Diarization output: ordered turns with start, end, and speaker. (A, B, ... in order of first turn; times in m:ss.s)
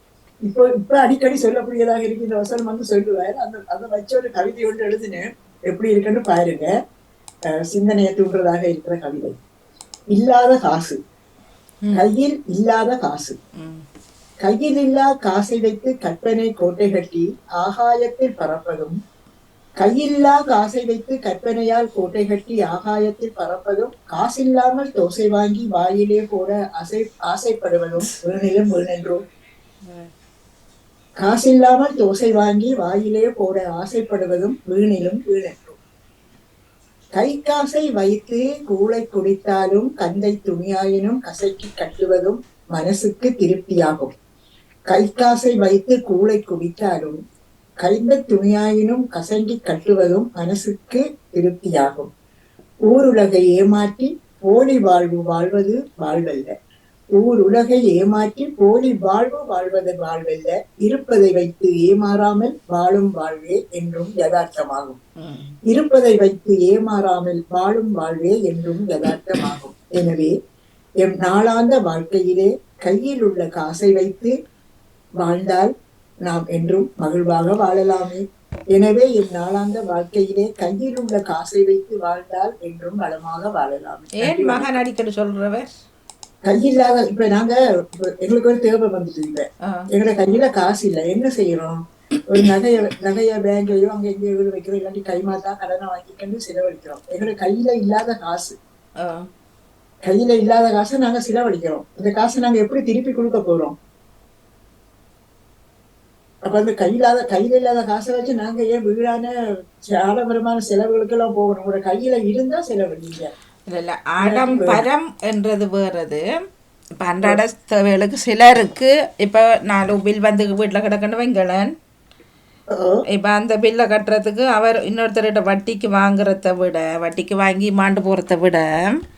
0:00.4-0:06.7 A
0:07.6-0:09.4 A
0:10.1-0:11.0 A
0:11.9-0:13.4 A
0:13.6-0:13.8 B
0:14.4-0:19.0 A
0:19.8-0:29.2 A
0:31.2-0:35.8 A
0:37.1-0:44.1 A
0:44.9-0:47.2 A
0:47.8-0:52.1 A
0:52.8-0:56.5 A
0:57.1-1:05.0 A
1:05.2-1:05.6 B
1:05.7-1:10.3 A
1:11.0-1:14.3 A
1:15.2-1:15.7 A
1:16.2-1:24.6 A
1:24.2-1:25.7 B
1:26.4-1:38.6 A
1:39.0-1:39.3 B
1:40.0-1:43.7 A
1:46.4-1:49.3 A
1:49.9-1:53.3 A
1:53.7-1:56.2 B
1:54.2-1:54.8 A
1:57.0-2:01.7 B
2:02.7-2:03.0 A
2:03.1-2:09.0 B